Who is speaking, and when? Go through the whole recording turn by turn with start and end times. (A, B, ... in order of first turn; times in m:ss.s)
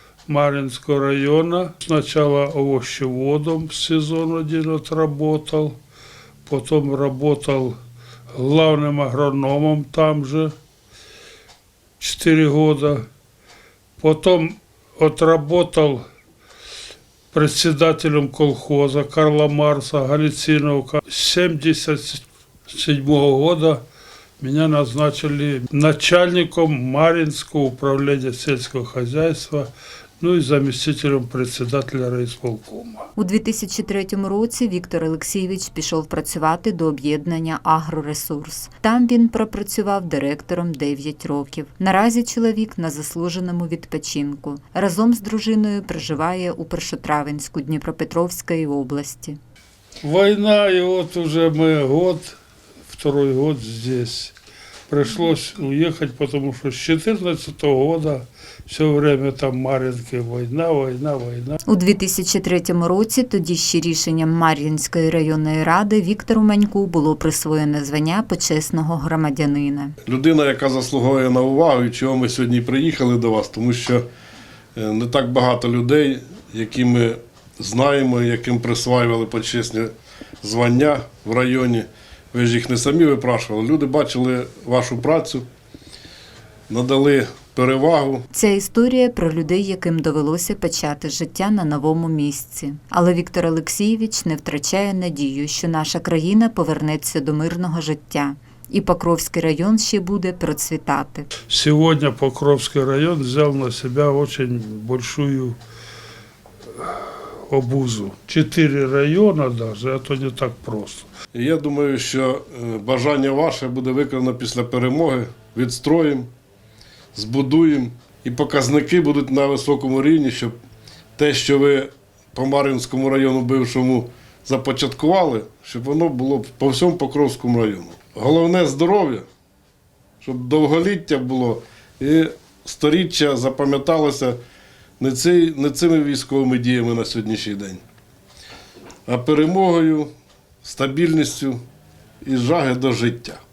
0:00.3-0:05.8 A
0:06.4-0:07.8 A
0:08.3-0:10.5 A
0:12.0-0:13.0 A
0:14.0-0:16.0 A
0:17.3-0:23.8 A
0:24.4-0:33.1 A
0:33.2-0:49.4 B
0:50.0-0:52.4 A
0:52.9-0:54.3 A
0:54.9-1:01.6 A
1:01.6-1:09.9 B
1:10.0-1:14.0 C
1:14.8-1:19.9 C
1:20.4-1:25.4 C
1:26.7-1:28.3 C
1:28.3-1:41.3 B
1:41.5-1:45.6 A
1:46.8-1:51.1 A
1:51.3-1:56.3 C
1:57.1-2:00.5 C
2:01.2-2:09.2 C
2:10.2-2:14.4 C
2:15.0-2:17.8 C
2:19.1-2:20.1 C
2:20.6-2:21.6 C
2:22.2-2:23.4 C